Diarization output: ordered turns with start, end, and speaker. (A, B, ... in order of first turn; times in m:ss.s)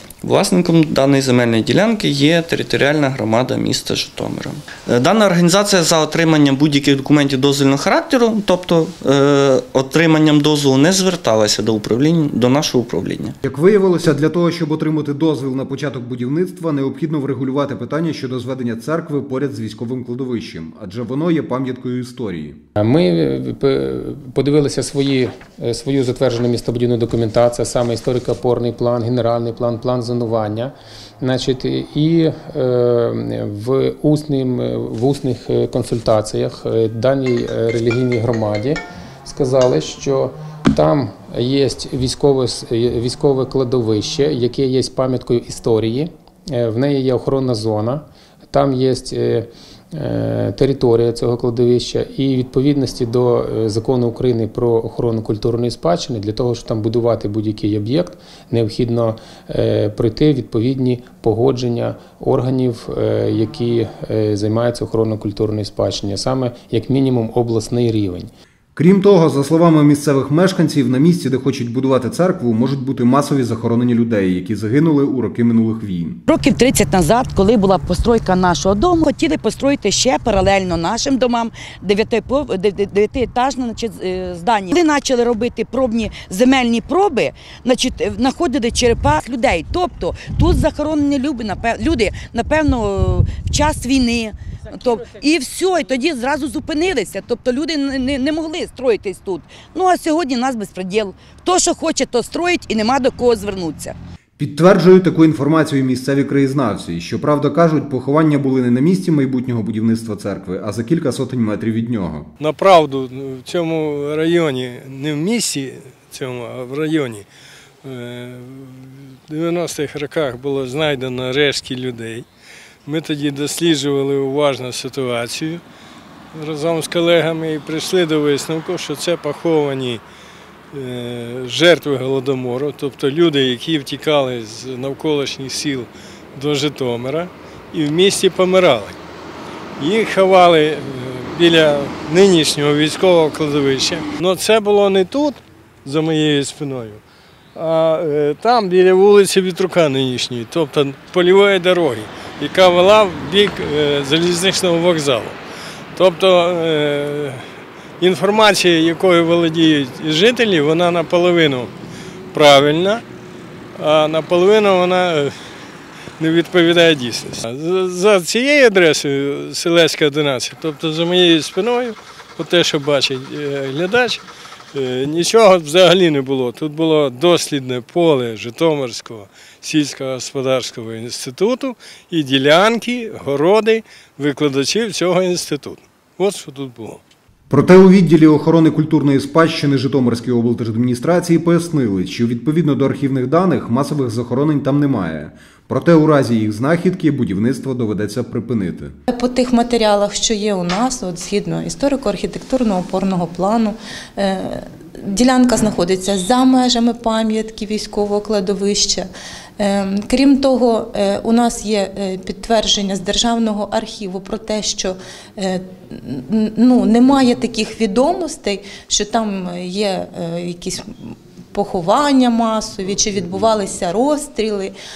0:00.2-0:13.4 A
0:13.4-0:22.6 B
0:22.8-1:08.3 C
1:08.8-1:16.2 B
1:16.3-1:44.0 D
1:44.4-1:52.3 B
1:52.4-1:57.3 E
1:57.8-2:02.3 E
2:02.9-2:05.6 E
2:06.3-2:10.0 E
2:10.7-2:19.0 E
2:19.8-2:27.0 E
2:27.6-2:35.4 E
2:36.0-2:37.4 E
2:38.0-2:41.7 E
2:42.3-2:43.0 E
2:43.8-2:45.3 E
2:46.2-2:54.2 E
2:54.7-3:07.0 E
3:07.5-3:18.9 B
3:19.1-3:29.1 F
3:29.6-3:44.7 F